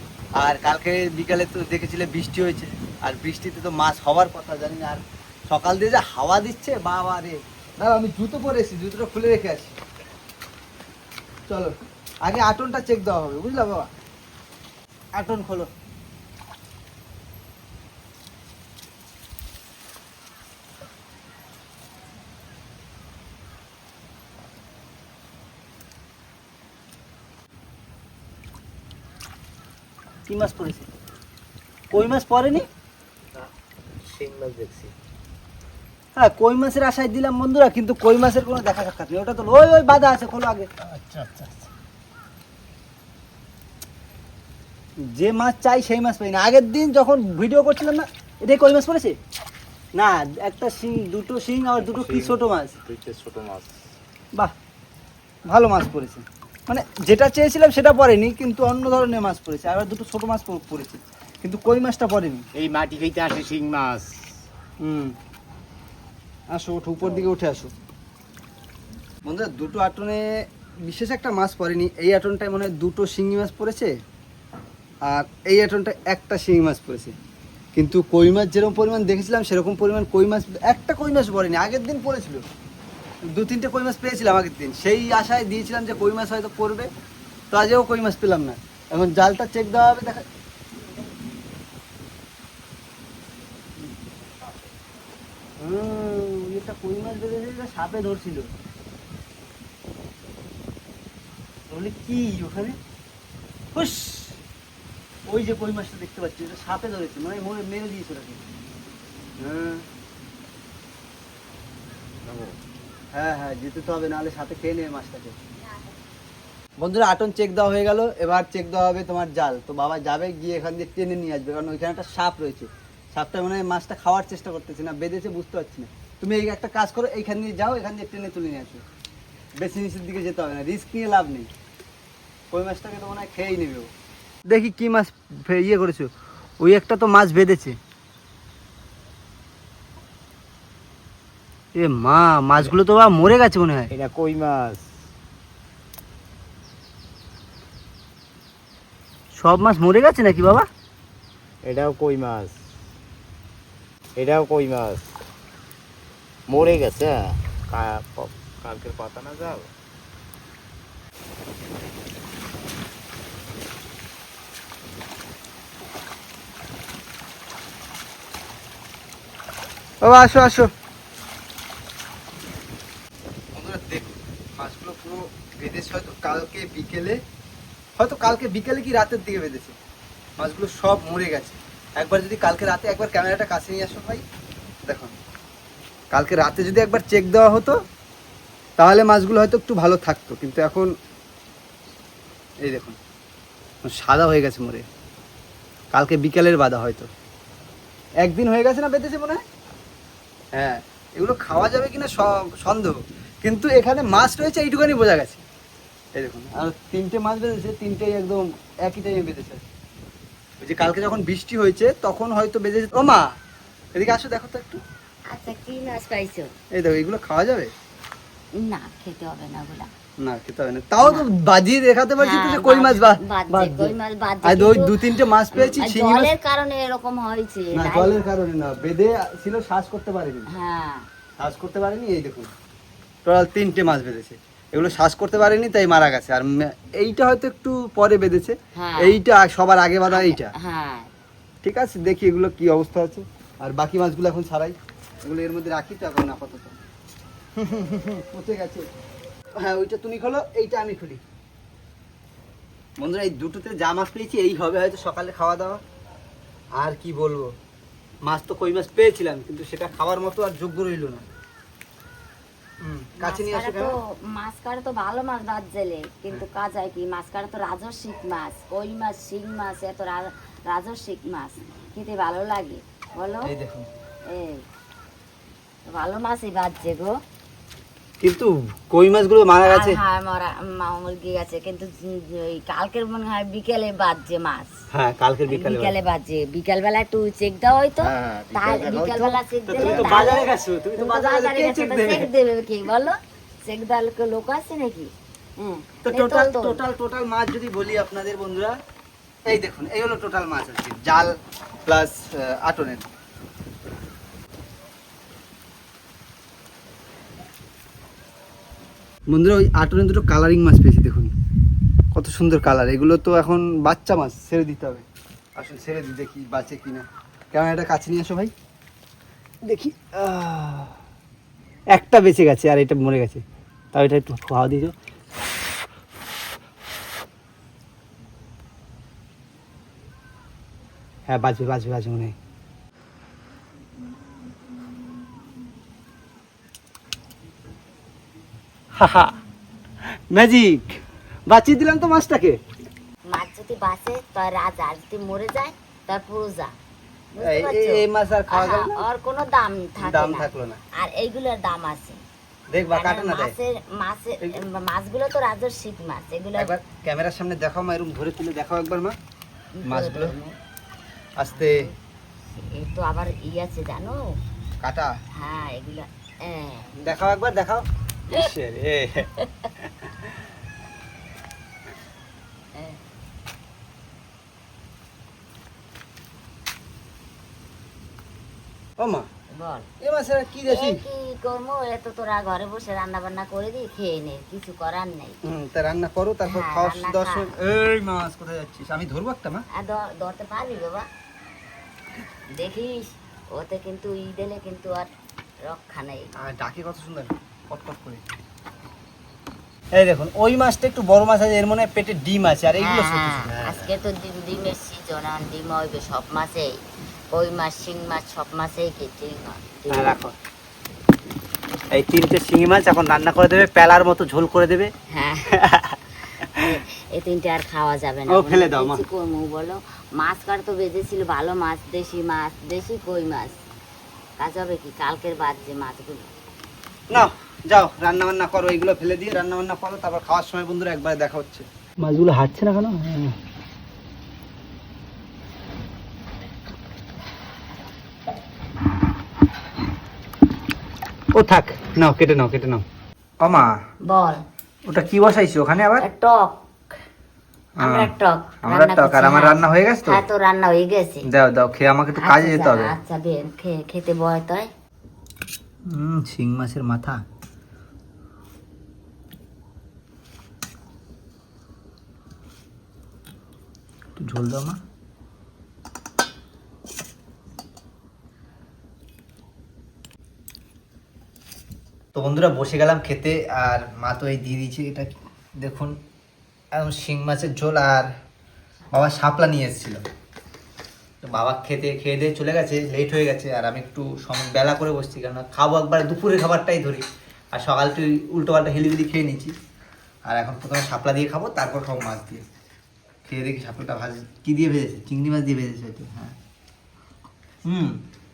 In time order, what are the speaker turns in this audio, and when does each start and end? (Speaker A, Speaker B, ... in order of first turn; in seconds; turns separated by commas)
Speaker A: 0.4-9.8, Speaker A: 12.2-13.9, Speaker A: 15.1-15.7, Speaker A: 30.3-30.9, Speaker A: 31.9-32.6, Speaker B: 34.0-34.9, Speaker A: 36.2-40.7, Speaker B: 40.8-41.7, Speaker A: 45.1-49.1, Speaker A: 50.0-52.7, Speaker B: 51.8-53.7, Speaker A: 55.5-62.4, Speaker B: 62.5-64.1, Speaker A: 64.8-65.1, Speaker A: 66.5-67.7, Speaker A: 69.2-70.2, Speaker A: 70.8-73.9, Speaker A: 75.0-77.1, Speaker A: 77.7-82.4, Speaker A: 83.3-86.9, Speaker A: 87.5-90.2, Speaker A: 95.6-98.5, Speaker A: 101.7-102.8, Speaker A: 103.7-104.4, Speaker A: 105.3-108.4, Speaker A: 109.4-109.8, Speaker B: 112.2-112.5, Speaker A: 113.1-115.3, Speaker A: 116.8-128.8, Speaker A: 129.6-131.5, Speaker A: 132.5-133.9, Speaker A: 134.5-136.1, Speaker A: 136.6-137.8, Speaker A: 141.8-143.9, Speaker B: 143.9-144.8, Speaker A: 149.3-150.7, Speaker B: 151.6-152.6, Speaker B: 154.2-155.2, Speaker B: 156.5-159.7, Speaker A: 170.0-170.7, Speaker A: 173.5-177.2, Speaker A: 178.0-179.7, Speaker A: 180.4-184.2, Speaker A: 184.9-185.1, Speaker A: 186.1-187.8, Speaker A: 188.8-190.9, Speaker A: 192.6-192.9, Speaker A: 193.8-194.8, Speaker A: 195.9-197.1, Speaker A: 198.2-199.4, Speaker A: 200.5-205.4, Speaker A: 206.2-209.6, Speaker A: 210.6-213.3, Speaker A: 213.9-214.8, Speaker C: 215.3-216.5, Speaker A: 216.7-217.7, Speaker C: 218.6-219.9, Speaker A: 220.2-226.3, Speaker C: 221.0-221.3, Speaker C: 222.2-224.9, Speaker C: 225.5-228.2, Speaker A: 227.7-230.5, Speaker C: 230.5-231.1, Speaker A: 231.4-232.5, Speaker A: 233.2-240.5, Speaker C: 238.7-239.2, Speaker C: 240.1-241.1, Speaker A: 241.6-246.8, Speaker A: 247.6-248.8, Speaker A: 249.6-251.2, Speaker A: 253.0-255.8, Speaker A: 256.8-257.5, Speaker A: 258.2-261.2, Speaker A: 262.8-263.9, Speaker C: 263.2-273.5, Speaker A: 273.4-273.9, Speaker C: 274.3-274.6, Speaker C: 275.9-277.2, Speaker A: 278.2-280.0, Speaker C: 279.6-284.7, Speaker A: 284.9-285.9, Speaker C: 285.5-296.8, Speaker B: 288.0-290.3, Speaker A: 289.7-292.3, Speaker A: 296.0-298.7, Speaker A: 299.5-301.3, Speaker A: 301.9-303.1, Speaker A: 309.3-311.3, Speaker A: 312.1-315.0, Speaker A: 315.6-318.5, Speaker A: 319.6-320.9, Speaker A: 321.9-324.9, Speaker A: 331.3-332.3, Speaker A: 338.9-339.3, Speaker A: 340.3-341.0, Speaker A: 341.5-342.6, Speaker C: 343.3-346.7, Speaker C: 347.3-350.5, Speaker A: 347.4-349.0, Speaker A: 350.0-350.8, Speaker C: 351.0-352.2, Speaker A: 352.7-353.5, Speaker C: 352.9-356.7, Speaker A: 356.6-359.1, Speaker C: 359.7-360.5, Speaker A: 359.8-360.3, Speaker A: 361.4-361.9, Speaker C: 361.4-361.9, Speaker C: 362.5-364.2, Speaker A: 364.8-365.1, Speaker C: 365.4-366.9, Speaker A: 367.0-369.3, Speaker C: 369.4-369.7, Speaker A: 369.8-370.2, Speaker A: 379.0-379.2, Speaker C: 379.6-379.9, Speaker A: 380.0-381.0, Speaker C: 380.7-385.4, Speaker A: 385.4-389.6, Speaker C: 386.5-387.5, Speaker C: 389.8-391.1, Speaker C: 392.6-395.1, Speaker C: 395.6-396.3, Speaker A: 396.4-398.2, Speaker A: 399.9-403.9, Speaker C: 402.8-406.7, Speaker C: 407.3-410.1, Speaker A: 409.9-410.3, Speaker A: 411.9-414.9, Speaker C: 415.1-415.5, Speaker A: 415.5-416.7, Speaker C: 416.6-423.6, Speaker A: 418.3-419.0, Speaker C: 424.4-426.3, Speaker A: 427.1-433.4, Speaker A: 441.3-442.8, Speaker A: 443.4-443.7, Speaker C: 444.1-444.4, Speaker A: 444.9-446.0, Speaker C: 446.0-446.6, Speaker A: 447.8-448.1, Speaker C: 447.8-451.2, Speaker A: 448.6-450.2, Speaker A: 451.2-452.9, Speaker C: 452.2-454.7, Speaker A: 455.9-457.2, Speaker A: 464.2-464.8, Speaker A: 472.1-475.9, Speaker A: 476.7-478.1, Speaker A: 478.9-480.0, Speaker A: 481.2-489.5, Speaker A: 490.3-492.4, Speaker A: 493.2-496.3, Speaker A: 497.7-498.0